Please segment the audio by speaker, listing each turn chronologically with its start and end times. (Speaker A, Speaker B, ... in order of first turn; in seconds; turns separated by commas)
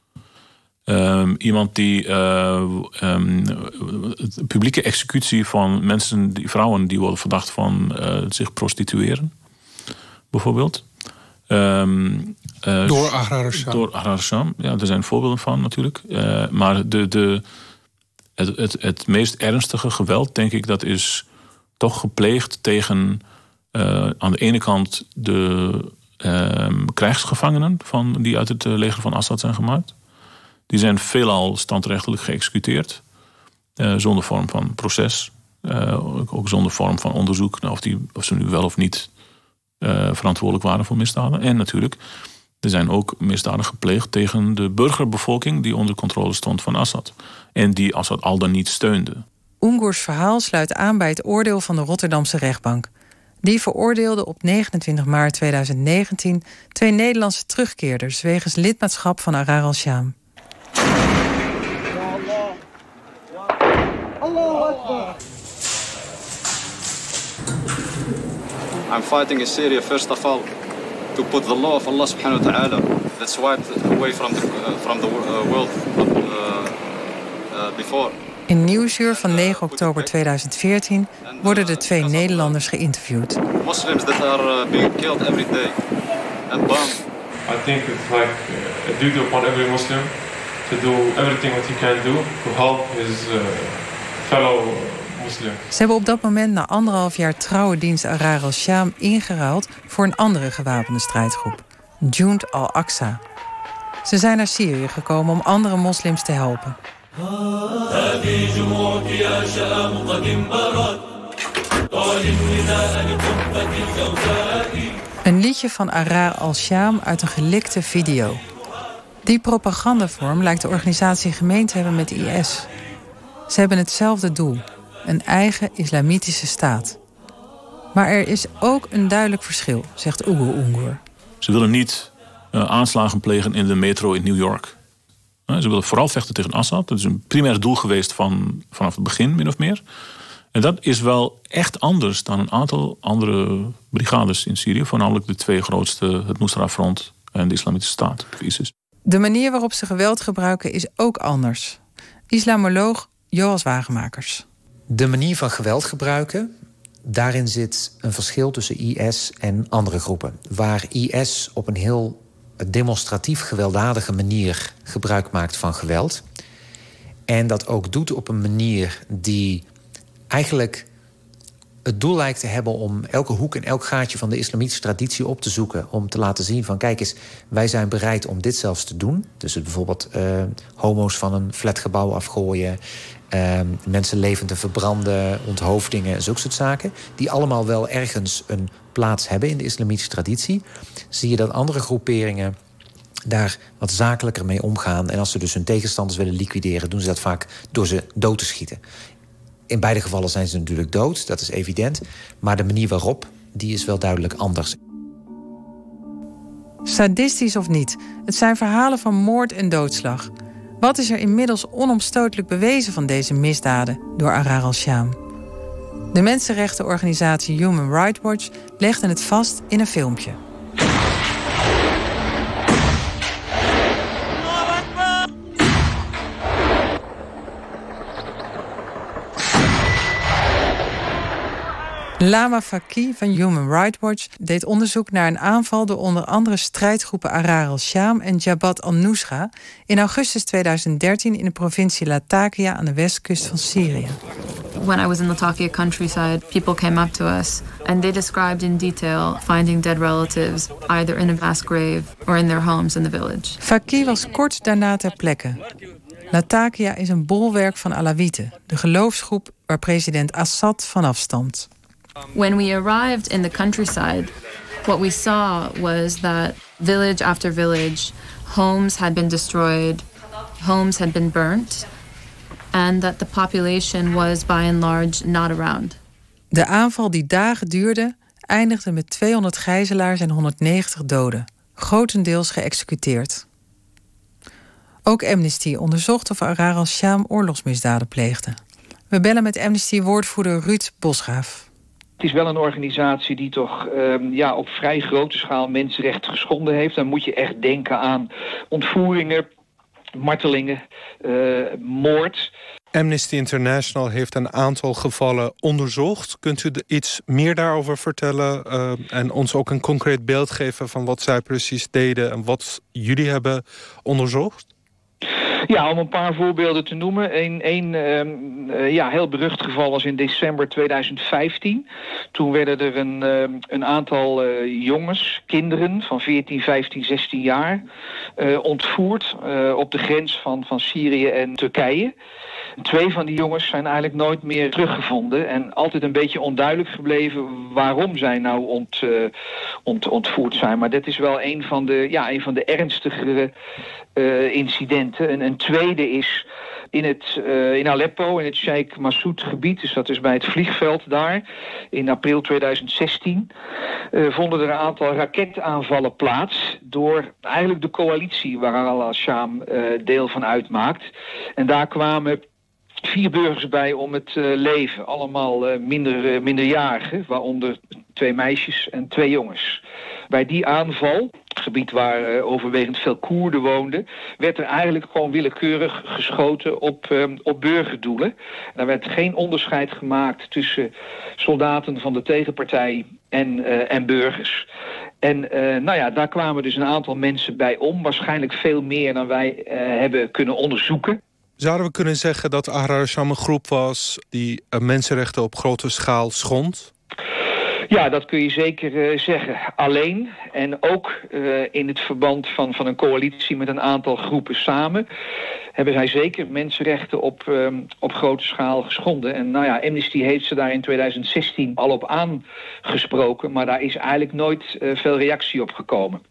Speaker A: 0.9-9.3, Speaker A: 10.3-10.8, Speaker A: 11.5-17.4, Speaker B: 12.8-13.8, Speaker A: 18.4-21.2, Speaker A: 21.8-23.2, Speaker A: 23.7-29.9, Speaker A: 30.7-33.0, Speaker A: 33.8-39.1, Speaker A: 39.8-42.0, Speaker A: 42.6-49.2, Speaker C: 49.6-52.9, Speaker C: 53.4-60.1, Speaker D: 68.9-70.5, Speaker D: 71.1-76.8, Speaker D: 77.5-78.1, Speaker C: 78.5-83.4, Speaker D: 79.0-80.1, Speaker D: 81.2-82.6, Speaker D: 83.6-85.8, Speaker D: 86.5-87.0, Speaker E: 87.5-95.6, Speaker C: 95.7-103.2, Speaker C: 104.0-106.8, Speaker C: 115.2-118.4, Speaker C: 119.2-122.7, Speaker C: 123.5-127.0, Speaker C: 127.9-131.0, Speaker A: 131.4-134.8, Speaker A: 135.5-139.8, Speaker A: 140.5-148.7, Speaker C: 149.1-151.8, Speaker C: 152.3-154.4, Speaker F: 154.9-156.5, Speaker F: 157.0-166.2, Speaker F: 167.3-169.7, Speaker F: 170.3-170.9, Speaker F: 171.8-182.8, Speaker F: 183.3-192.6, Speaker F: 193.2-198.8, Speaker F: 199.7-204.8, Speaker C: 206.8-215.2, Speaker C: 216.1-220.4, Speaker C: 232.2-244.2, Speaker G: 244.7-253.6, Speaker C: 253.6-255.6, Speaker C: 256.3-261.7, Speaker G: 262.3-264.3, Speaker G: 264.8-270.0, Speaker G: 270.6-271.9, Speaker G: 272.7-276.0, Speaker C: 276.5-283.4, Speaker C: 285.1-288.6, Speaker C: 289.1-291.6, Speaker H: 292.2-299.5, Speaker H: 300.1-302.5, Speaker B: 302.9-314.6, Speaker H: 315.7-327.8, Speaker H: 328.4-332.1, Speaker H: 332.8-339.3, Speaker H: 339.9-343.5, Speaker H: 344.1-353.5, Speaker H: 354.1-361.1, Speaker H: 361.6-362.4, Speaker H: 363.0-384.6, Speaker H: 385.2-391.2, Speaker B: 391.6-396.9, Speaker H: 397.9-405.0, Speaker H: 405.8-416.2